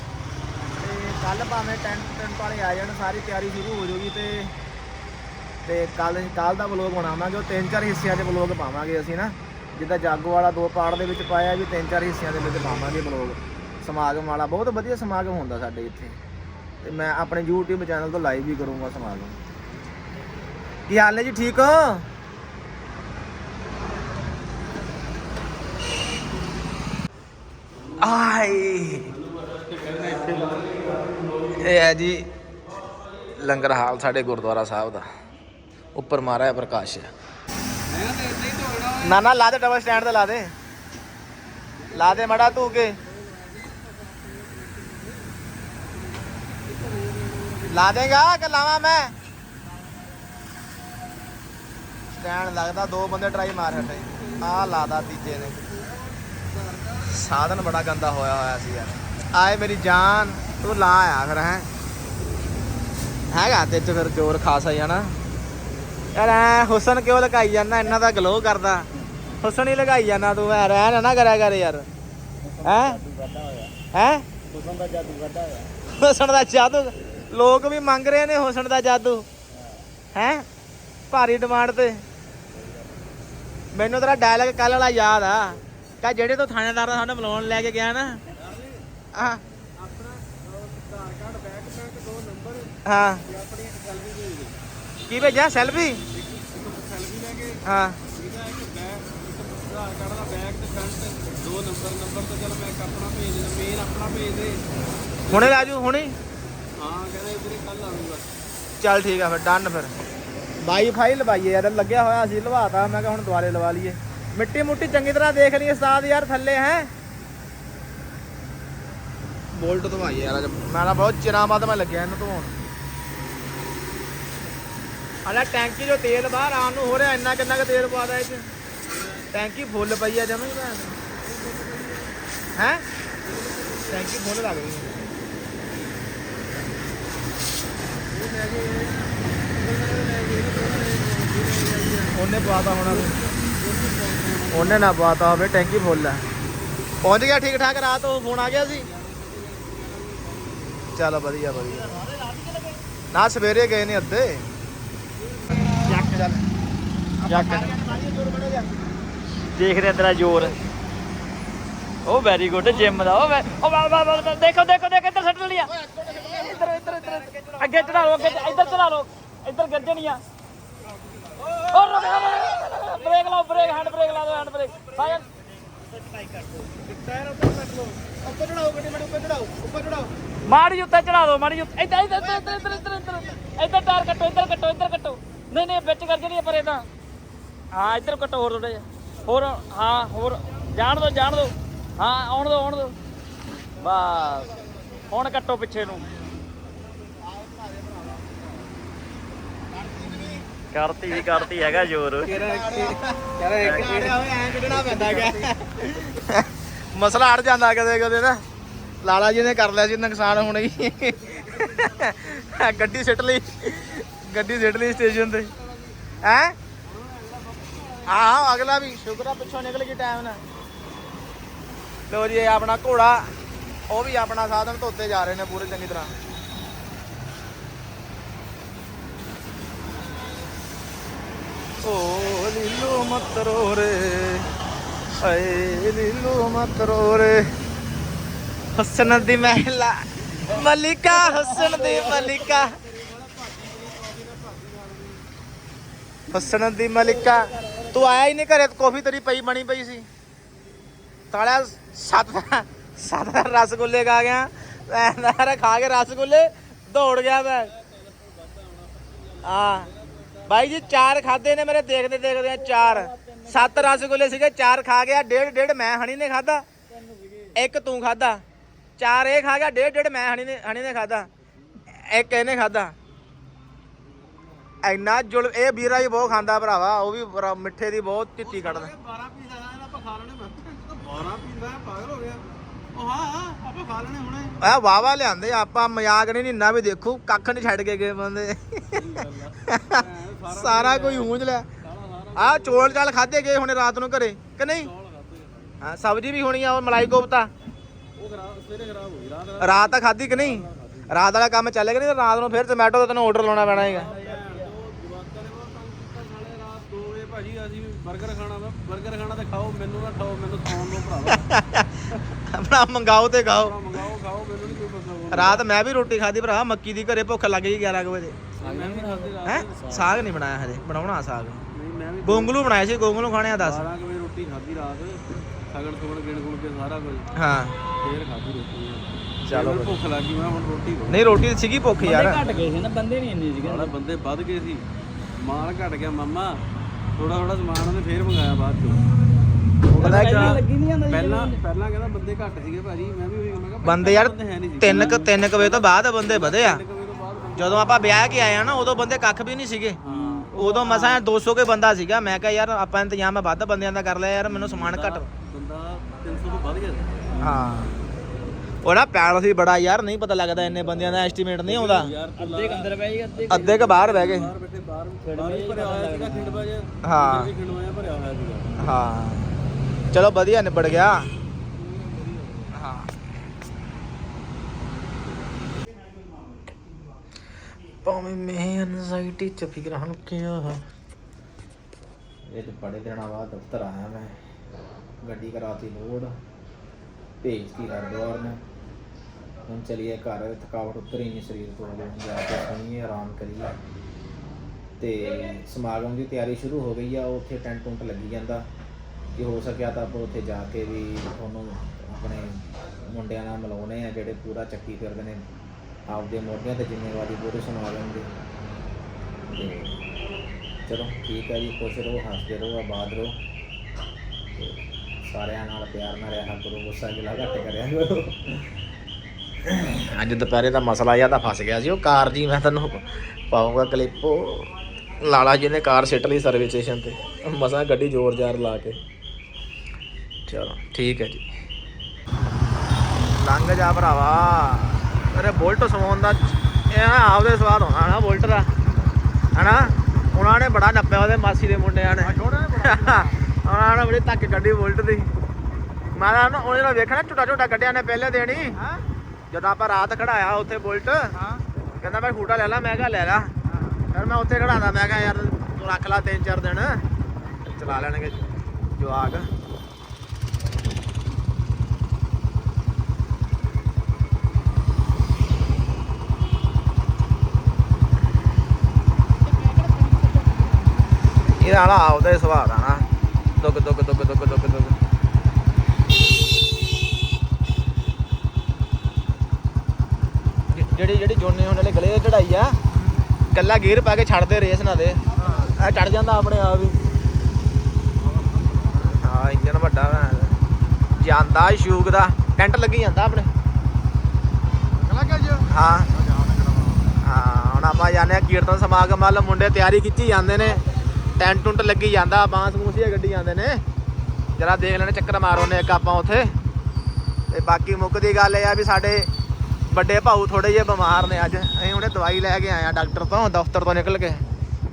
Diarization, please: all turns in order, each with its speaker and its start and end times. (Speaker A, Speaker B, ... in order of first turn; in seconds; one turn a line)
Speaker A: 0.7-4.5
Speaker A: 5.6-16.1
Speaker A: 16.8-19.4
Speaker A: 20.9-22.1
Speaker A: 28.0-29.1
Speaker B: 29.1-31.0
Speaker A: 31.6-32.3
Speaker A: 33.4-35.1
Speaker A: 36.0-37.1
Speaker B: 37.9-39.1
Speaker A: 39.0-40.5
Speaker B: 41.8-45.4
Speaker A: 41.9-43.0
Speaker B: 45.9-48.1
Speaker A: 47.7-49.1
Speaker A: 52.1-55.6
Speaker B: 54.0-57.1
Speaker A: 57.0-61.7
Speaker A: 63.3-65.2
Speaker A: 66.1-68.9
Speaker A: 69.4-71.9
Speaker C: 72.4-73.7
Speaker A: 72.6-73.0
Speaker A: 73.9-74.3
Speaker C: 74.5-75.7
Speaker A: 75.9-79.3
Speaker C: 79.5-79.8
Speaker A: 80.1-80.5
Speaker A: 81.1-82.0
Speaker A: 83.7-88.2
Speaker B: 88.3-88.8
Speaker A: 89.1-89.4
Speaker B: 89.8-94.5
Speaker A: 92.8-93.2
Speaker A: 95.1-96.0
Speaker B: 96.1-104.6
Speaker A: 97.6-98.0
Speaker B: 105.3-105.7
Speaker A: 105.3-106.2
Speaker B: 106.7-108.3
Speaker A: 108.8-109.9
Speaker A: 110.6-116.9
Speaker A: 119.5-122.5
Speaker A: 125.2-128.5
Speaker B: 128.9-129.2
Speaker A: 129.3-131.0
Speaker B: 131.2-132.2
Speaker A: 132.6-132.8
Speaker B: 133.2-134.1
Speaker A: 133.9-135.1
Speaker B: 138.1-142.2
Speaker A: 142.1-143.2
Speaker B: 142.8-144.9
Speaker A: 144.5-146.2
Speaker A: 147.0-148.9
Speaker B: 148.7-150.9
Speaker A: 150.9-152.0
Speaker A: 153.1-154.5
Speaker B: 155.2-156.2
Speaker A: 155.8-156.4
Speaker A: 157.2-158.7
Speaker C: 157.2-157.7
Speaker C: 159.6-160.6
Speaker C: 162.1-165.7
Speaker A: 165.7-168.8
Speaker C: 166.3-170.2
Speaker C: 171.7-175.2
Speaker C: 176.1-176.7
Speaker B: 177.0-177.9
Speaker A: 178.2-180.1
Speaker C: 180.5-186.9
Speaker A: 182.1-183.3
Speaker C: 187.7-192.9
Speaker C: 193.8-194.5
Speaker C: 195.1-196.1
Speaker A: 197.3-198.1
Speaker A: 199.7-200.5
Speaker C: 200.7-202.4
Speaker A: 201.1-201.8
Speaker B: 202.2-205.5
Speaker A: 202.4-208.4
Speaker C: 203.6-203.9
Speaker A: 209.0-215.5
Speaker B: 211.3-212.0
Speaker B: 214.7-216.2
Speaker A: 216.2-216.6
Speaker B: 216.8-218.3
Speaker A: 218.1-220.4
Speaker A: 222.1-223.3
Speaker A: 223.9-226.1
Speaker A: 231.8-234.5
Speaker A: 235.2-237.5
Speaker A: 238.7-242.8
Speaker C: 241.2-242.0
Speaker B: 242.5-245.2
Speaker A: 246.3-250.1
Speaker C: 247.3-248.0
Speaker A: 251.3-257.7
Speaker B: 257.7-261.4
Speaker A: 259.4-259.9
Speaker A: 260.5-266.6
Speaker C: 262.6-264.1
Speaker A: 267.6-268.4
Speaker A: 269.0-271.3
Speaker A: 271.9-272.9
Speaker A: 274.8-278.9
Speaker B: 278.4-284.6
Speaker A: 284.6-289.1
Speaker B: 288.9-293.1
Speaker A: 289.7-291.7
Speaker A: 292.4-294.9
Speaker B: 294.6-295.8
Speaker A: 295.8-297.5
Speaker B: 298.2-301.1
Speaker A: 299.6-304.1
Speaker B: 303.6-311.5
Speaker C: 304.1-304.5
Speaker A: 311.3-313.8
Speaker B: 313.6-315.6
Speaker A: 315.3-318.4
Speaker B: 318.6-319.8
Speaker C: 318.6-319.4
Speaker A: 319.4-321.6
Speaker B: 321.7-322.6
Speaker A: 322.2-323.9
Speaker B: 323.6-327.3
Speaker A: 327.4-327.8
Speaker B: 328.0-331.2
Speaker A: 329.5-330.0
Speaker A: 331.1-332.4
Speaker C: 332.0-333.9
Speaker B: 333.6-336.6
Speaker B: 337.2-339.0
Speaker A: 339.9-340.6
Speaker C: 340.0-341.6
Speaker B: 341.1-348.0
Speaker A: 343.8-346.8
Speaker C: 344.8-345.3
Speaker A: 347.6-350.0
Speaker B: 350.0-351.2
Speaker C: 350.1-350.9
Speaker A: 350.5-355.3
Speaker B: 354.6-357.2
Speaker A: 357.4-357.9
Speaker A: 358.8-362.1
Speaker B: 361.7-368.7
Speaker C: 362.4-363.7
Speaker A: 363.5-364.5
Speaker C: 365.2-366.7
Speaker A: 367.0-367.5
Speaker A: 368.8-369.6
Speaker A: 370.1-371.3
Speaker B: 371.7-372.7
Speaker A: 372.7-373.1
Speaker A: 378.0-380.8
Speaker A: 382.5-384.4
Speaker A: 385.2-386.3
Speaker A: 387.4-388.6
Speaker A: 389.6-393.7
Speaker A: 395.0-398.6
Speaker A: 399.4-405.4
Speaker A: 406.1-408.3
Speaker A: 409.5-410.0
Speaker A: 410.9-413.4
Speaker A: 414.5-418.7
Speaker A: 419.6-424.7
Speaker A: 425.2-429.0
Speaker A: 430.5-431.4
Speaker A: 433.3-438.7
Speaker A: 439.5-445.3
Speaker B: 442.2-443.4
Speaker A: 446.1-448.8
Speaker A: 449.5-451.4
Speaker A: 452.0-453.5
Speaker A: 454.1-457.0
Speaker A: 457.6-459.5
Speaker A: 471.6-473.1
Speaker A: 473.6-475.0
Speaker A: 480.7-482.8
Speaker A: 483.5-487.0
Speaker B: 488.2-489.2
Speaker A: 489.1-490.6
Speaker A: 491.1-493.5
Speaker B: 494.9-495.6
Speaker A: 495.7-496.1
Speaker B: 496.2-497.0
Speaker A: 497.2-500.8
Speaker A: 501.4-503.8
Speaker A: 504.6-506.5
Speaker A: 507.5-509.3
Speaker A: 509.9-514.4